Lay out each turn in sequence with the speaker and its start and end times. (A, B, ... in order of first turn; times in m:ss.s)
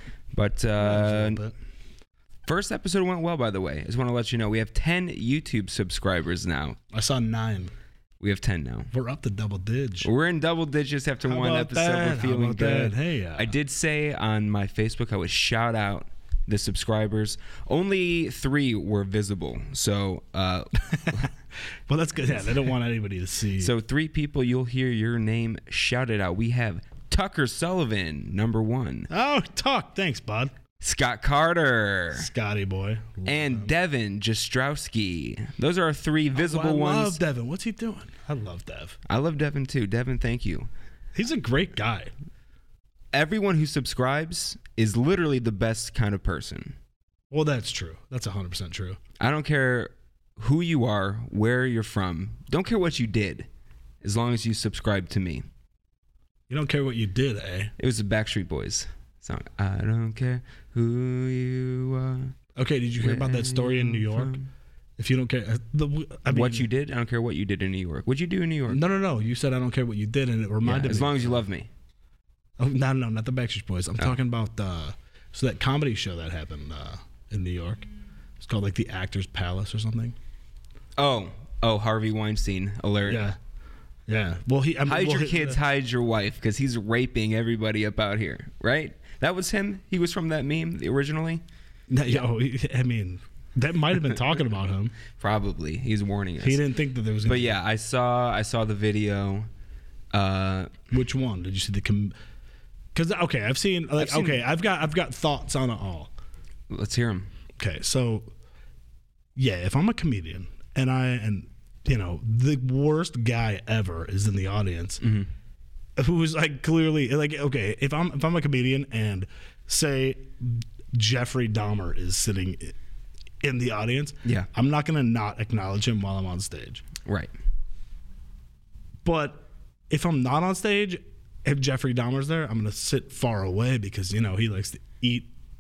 0:00.3-0:01.4 A
0:00.8-0:01.6 B
0:02.5-0:06.8 A
0:06.9-0:07.7 B
0:08.2-0:08.9 A
0:08.9-0:10.1 B
0:10.0-0:21.3 A
0:11.3-0:13.5 B
0:21.9-0:23.7 B
0:23.6-0:29.1 A
0:29.1-0:30.5 B
0:30.8-0:32.3 A
0:32.2-0:33.7 B
0:33.3-0:37.2 A
0:36.4-0:39.0 B
0:39.1-0:40.7 A
0:41.2-0:42.1 B
0:43.1-0:46.8 A
0:47.3-0:49.0 B
0:49.2-0:53.5 A
0:54.0-0:55.5 A
0:56.5-0:57.7 B
0:57.8-1:02.4 A
1:02.6-1:04.3 B
1:03.0-1:04.5 A
1:05.0-1:06.7 B
1:06.3-1:08.8 A
1:08.7-1:11.4 B
1:10.6-1:11.7 A
1:12.6-1:17.8 B
1:18.4-1:20.2 B
1:21.0-1:23.2 A
1:23.1-1:23.4 B
1:24.1-1:25.6 B
1:24.9-1:31.4 A
1:31.9-1:35.0 B
1:35.2-1:36.6 A
1:36.4-1:37.6 B
1:37.3-1:39.5 A
1:40.1-1:40.8 A
1:40.9-1:42.1 B
1:42.9-1:46.1 B
1:44.0-1:44.4 A
1:46.7-1:47.3 A
1:47.6-1:48.3 B
1:49.4-1:55.0 B
1:55.0-1:55.3 A
1:56.0-2:02.8 B
2:03.4-2:06.8 B
2:07.0-2:07.3 A
2:09.0-2:15.3 B